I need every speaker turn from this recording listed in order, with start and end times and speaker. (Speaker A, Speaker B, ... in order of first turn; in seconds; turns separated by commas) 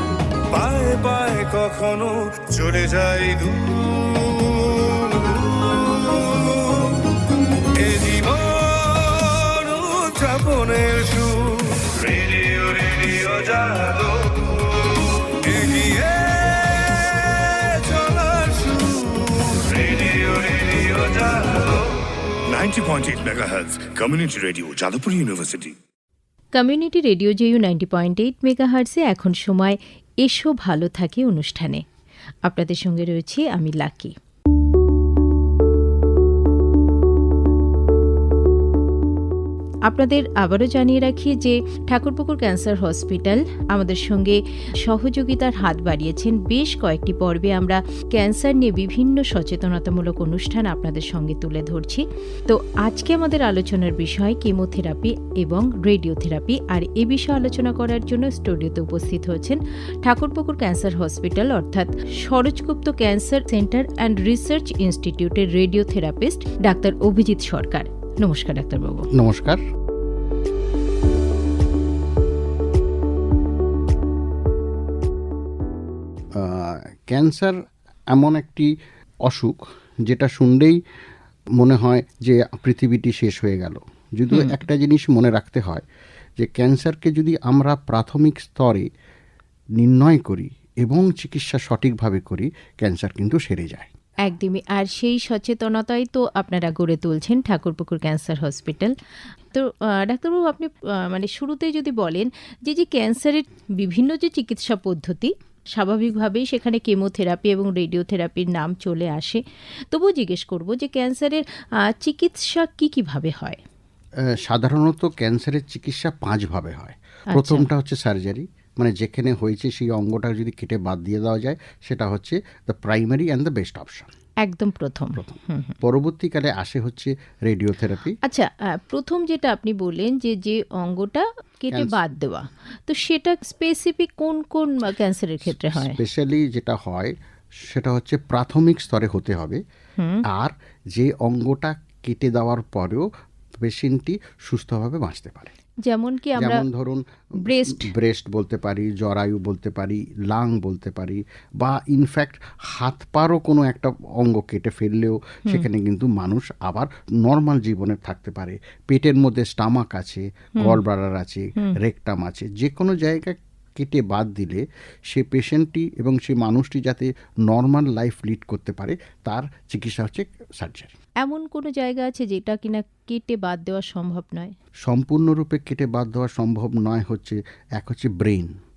Speaker A: 0.5-7.1, Speaker A: 7.8-22.0, Speaker A: 22.5-25.7, Speaker B: 26.5-31.8, Speaker B: 32.4-34.1, Speaker B: 39.9-69.1, Speaker C: 69.1-69.6, Speaker C: 76.3-77.6, Speaker C: 78.1-78.7, Speaker C: 79.2-80.8, Speaker C: 81.6-85.8, Speaker C: 86.4-88.9, Speaker C: 89.8-93.9, Speaker B: 94.2-98.9, Speaker B: 99.5-113.6, Speaker C: 114.2-124.1, Speaker B: 117.3-117.7, Speaker B: 124.4-125.8, Speaker C: 125.2-128.2, Speaker B: 128.2-136.0, Speaker C: 131.7-132.0, Speaker C: 135.4-139.6, Speaker B: 140.0-140.2, Speaker C: 140.2-143.1, Speaker C: 143.6-145.5, Speaker B: 145.8-146.6, Speaker C: 146.3-170.9, Speaker B: 147.4-147.9, Speaker B: 171.2-174.5, Speaker C: 174.8-178.5